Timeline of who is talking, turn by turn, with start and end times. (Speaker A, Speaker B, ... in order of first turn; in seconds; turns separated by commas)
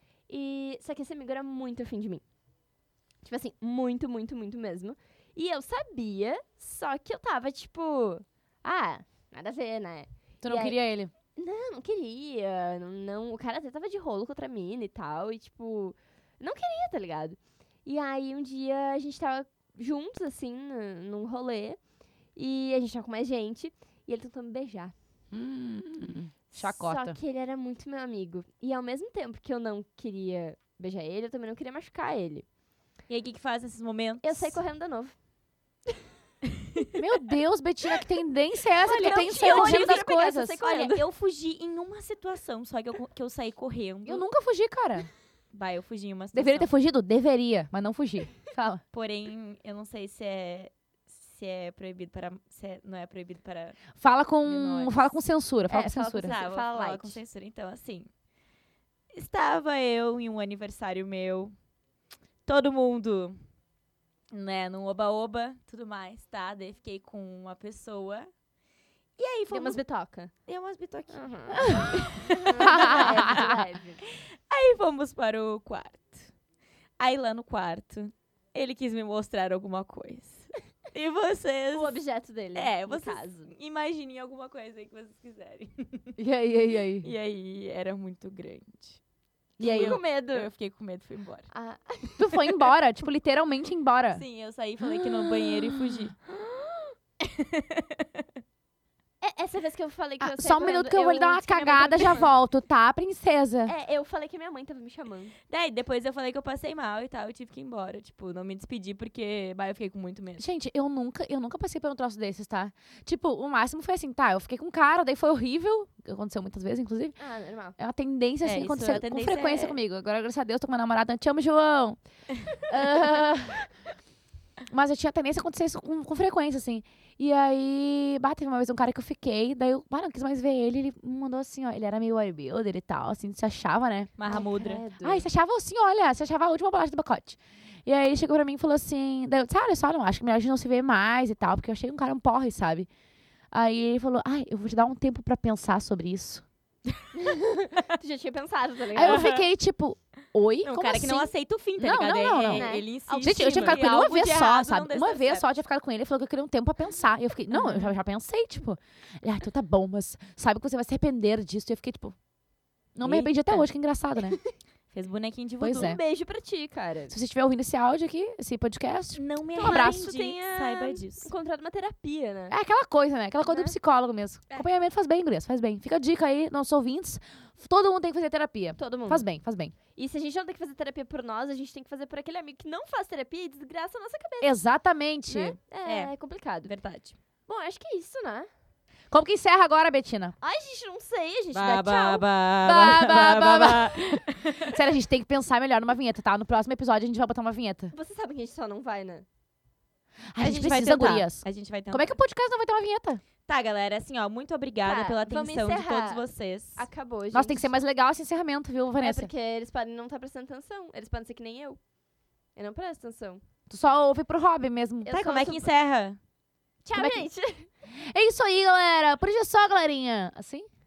Speaker A: 0.3-2.2, Speaker A: 3.2-10.8, Speaker B: 10.4-11.1, Speaker A: 11.3-21.8, Speaker A: 22.4-24.9, Speaker B: 25.3-27.2, Speaker A: 26.5-32.4, Speaker C: 33.1-34.6, Speaker A: 34.2-35.1, Speaker C: 36.5-36.9, Speaker B: 36.9-40.6, Speaker A: 38.8-41.0, Speaker C: 39.0-44.3, Speaker B: 44.0-45.1, Speaker C: 45.5-46.7, Speaker B: 46.3-48.8, Speaker C: 48.9-53.8, Speaker B: 54.0-56.3, Speaker C: 54.4-55.1, Speaker A: 55.7-57.2, Speaker C: 56.2-58.1, Speaker C: 59.1-61.5, Speaker C: 62.4-63.4, Speaker C: 64.3-68.3, Speaker C: 69.2-69.8, Speaker A: 69.5-70.3, Speaker C: 70.5-73.4, Speaker A: 71.1-74.0, Speaker B: 72.6-73.6, Speaker C: 74.0-76.3, Speaker C: 77.0-82.0, Speaker A: 81.7-83.5, Speaker C: 82.5-86.2, Speaker B: 86.2-87.1, Speaker C: 87.0-89.0, Speaker B: 89.6-90.0, Speaker A: 89.6-90.5, Speaker C: 89.6-91.5, Speaker A: 91.5-92.7, Speaker B: 92.2-94.2, Speaker C: 94.1-96.1, Speaker A: 96.2-96.9, Speaker C: 97.2-98.3, Speaker A: 99.2-102.3, Speaker B: 100.2-103.7, Speaker A: 103.6-105.4, Speaker C: 105.5-110.4, Speaker B: 110.4-117.2, Speaker A: 117.2-117.8, Speaker B: 117.8-122.0, Speaker C: 118.4-119.8, Speaker B: 122.6-123.6, Speaker B: 124.7-134.1, Speaker C: 134.2-134.8, Speaker A: 134.3-135.2, Speaker B: 135.0-142.9, Speaker B: 143.5-146.4, Speaker A: 147.1-149.3, Speaker B: 148.9-162.2, Speaker C: 149.0-149.4, Speaker C: 150.6-155.5, Speaker A: 152.5-154.1, Speaker C: 157.6-157.9, Speaker B: 162.9-164.4, Speaker C: 163.0-163.7, Speaker C: 164.9-165.9, Speaker B: 165.6-166.0, Speaker A: 165.7-167.1, Speaker B: 167.1-170.1, Speaker C: 169.1-171.3, Speaker A: 169.5-172.5, Speaker B: 172.5-179.7, Speaker A: 173.4-173.8, Speaker A: 178.8-179.2, Speaker A: 179.9-184.6, Speaker B: 184.4-185.6, Speaker A: 185.3-186.7, Speaker C: 185.8-186.1, Speaker C: 186.6-187.2, Speaker A: 187.5-188.5, Speaker B: 189.1-190.3, Speaker A: 190.4-192.2, Speaker C: 191.5-194.8, Speaker B: 192.6-197.9, Speaker A: 197.9-199.2, Speaker B: 200.3-203.2, Speaker C: 200.4-202.1, Speaker C: 203.5-206.8, Speaker A: 204.8-206.2, Speaker A: 206.8-207.7, Speaker B: 207.3-209.3, Speaker A: 209.0-211.8, Speaker A: 212.6-213.4, Speaker B: 213.7-215.1, Speaker A: 215.0-215.7, Speaker C: 215.1-216.2, Speaker A: 216.8-217.7, Speaker B: 216.9-217.2, Speaker B: 218.1-220.7